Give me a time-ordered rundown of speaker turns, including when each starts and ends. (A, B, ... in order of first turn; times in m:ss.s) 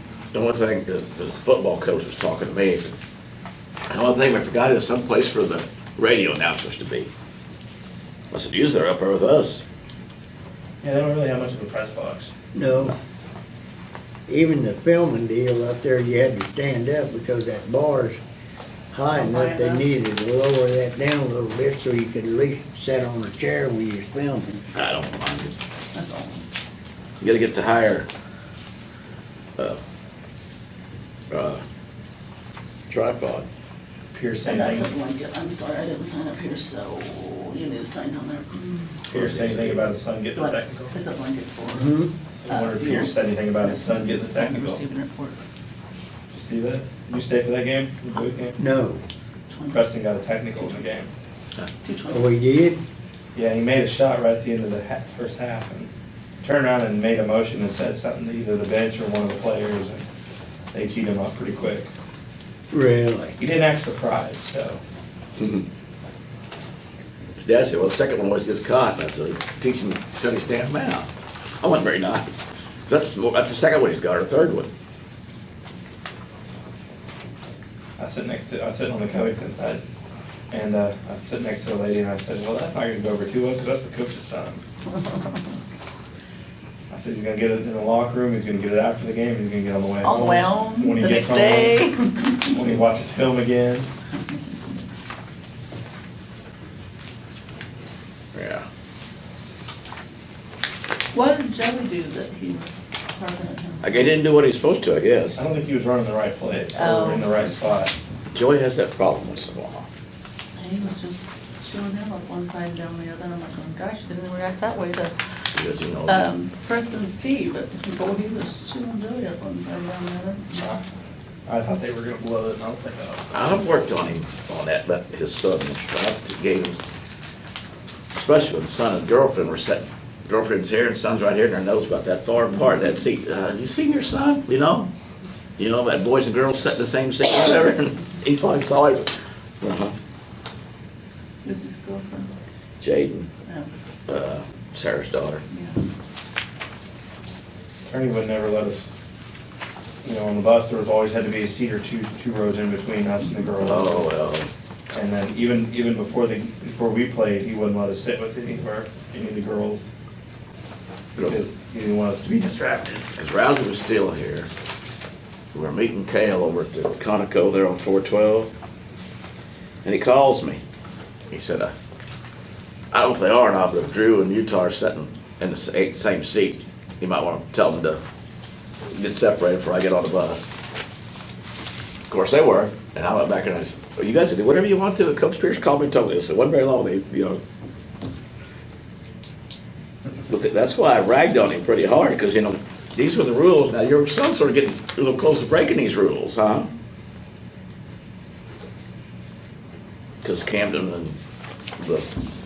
0:00.3-0:02.9 A
0:03.9-0:07.1 A
0:08.3-0:09.6 A
0:10.8-0:12.3 B
0:12.5-0:13.0 C
0:14.3-0:18.2 C
0:18.9-0:24.6 C
0:19.1-0:19.8 D
0:24.7-0:25.5 A
0:25.9-0:26.4 D
0:27.2-0:28.1 A
0:31.3-0:31.6 A
0:32.9-0:33.5 A
0:34.1-0:34.9 B
0:34.4-0:39.0 D
0:39.1-0:39.9 A
0:39.1-0:40.9 B
0:40.3-0:41.9 D
0:41.7-0:42.1 C
0:42.4-0:44.8 B
0:42.4-0:45.4 D
0:46.3-0:48.6 B
0:48.6-0:49.0 C
0:49.5-0:49.9 D
0:49.7-0:51.1 B
0:51.8-0:52.3 D
0:52.1-0:52.8 C
0:53.3-0:55.9 B
0:56.4-1:00.0 B
1:00.7-1:01.9 B
1:02.7-1:03.4 C
1:03.4-1:04.8 B
1:05.4-1:05.6 A
1:07.4-1:11.1 A
1:11.6-1:14.7 A
1:18.0-1:19.8 B
1:20.5-1:24.6 B
1:26.9-1:33.9 B
1:30.0-1:32.5 D
1:38.3-1:38.6 A
1:41.1-1:44.2 D
1:43.8-1:45.4 A
1:45.4-1:47.9 B
1:46.7-1:47.5 D
1:48.3-1:49.9 A
1:50.6-1:55.1 D
1:55.5-1:56.3 A
1:56.0-2:00.6 D
2:00.6-2:00.8 B
2:01.5-2:03.2 B
2:03.3-2:06.8 A
2:08.1-2:14.9 A
2:15.6-2:19.9 A
2:21.4-2:22.3 D
2:22.8-2:23.3 A
2:24.1-2:25.4 A
2:25.5-2:25.8 D
2:27.8-2:28.9 B
2:30.0-2:34.1 B
2:33.6-2:34.5 A
2:34.9-2:39.9 B
2:41.1-2:43.0 B
2:43.2-2:44.5 A
2:45.5-2:48.5 A
2:49.8-2:50.6 A
2:51.3-2:51.7 A
2:52.9-2:58.0 A
2:58.9-3:00.5 A
3:02.1-3:07.4 A
3:10.3-3:16.7 A
3:20.2-3:21.1 A
3:21.8-3:22.1 A